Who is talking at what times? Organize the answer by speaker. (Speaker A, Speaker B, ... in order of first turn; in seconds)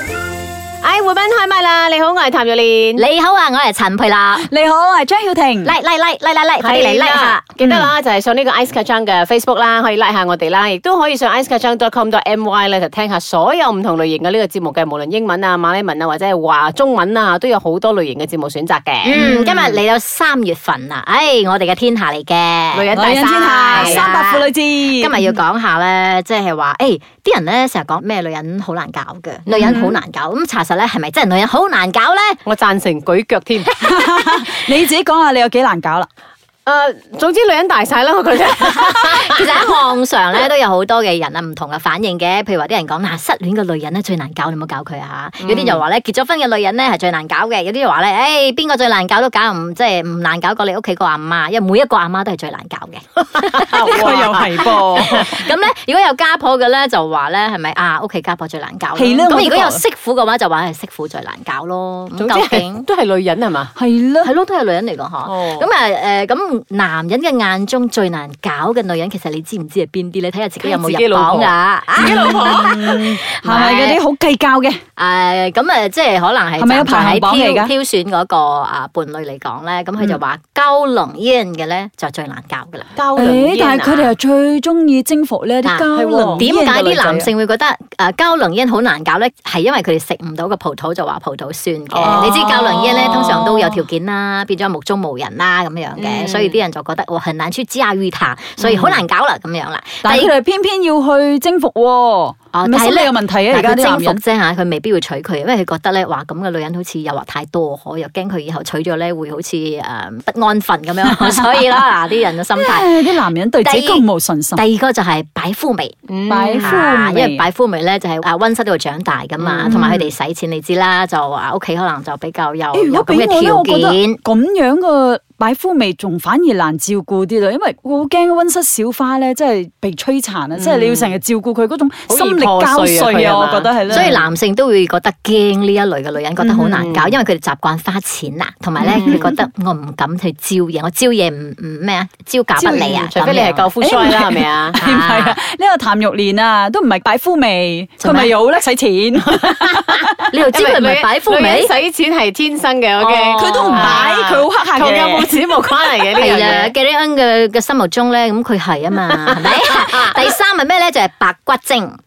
Speaker A: 0.8-3.0, 6.6-19.6, 22.7-24.1, 32.5-33.9, 36.7-39.6, 45.4-45.8, 53.4-55.2, 62.1-63.7, 65.2-65.7, 70.6-72.7, 83.0-84.1, 85.9-86.5, 91.9-92.5, 96.0-96.6, 98.6-99.0, 116.1-116.9, 119.4-119.7, 130.6-131.2, 132.1-134.2, 136.9-137.1, 138.8-139.2, 142.6-144.8, 150.5-156.7, 159.1-160.2
Speaker B: 3.0-4.5, 5.6-7.4, 19.0-22.9, 23.7-32.4, 38.9-54.4, 54.9-62.9, 64.2-74.0, 75.0-82.9, 86.4-100.3, 102.5-116.0, 116.5-124.2, 133.9-143.7, 144.8-145.4, 148.0-148.4, 150.3-151.7, 153.0-154.1, 156.2-162.0
Speaker C: 4.3-5.7, 7.6-7.9, 22.9-25.4, 29.5-30.0, 33.8-36.1, 53.7-55.3, 59.0-59.8, 63.8-64.3, 72.0-74.8, 76.6-77.7, 83.2-87.3, 92.0-93.8, 100.0-104.2, 111.0-111.9, 112.5-114.6, 116.3-117.5, 119.7-120.1, 122.7-134.2, 136.4-136.9, 138.8-139.3, 143.8-150.3, 153.4-155.3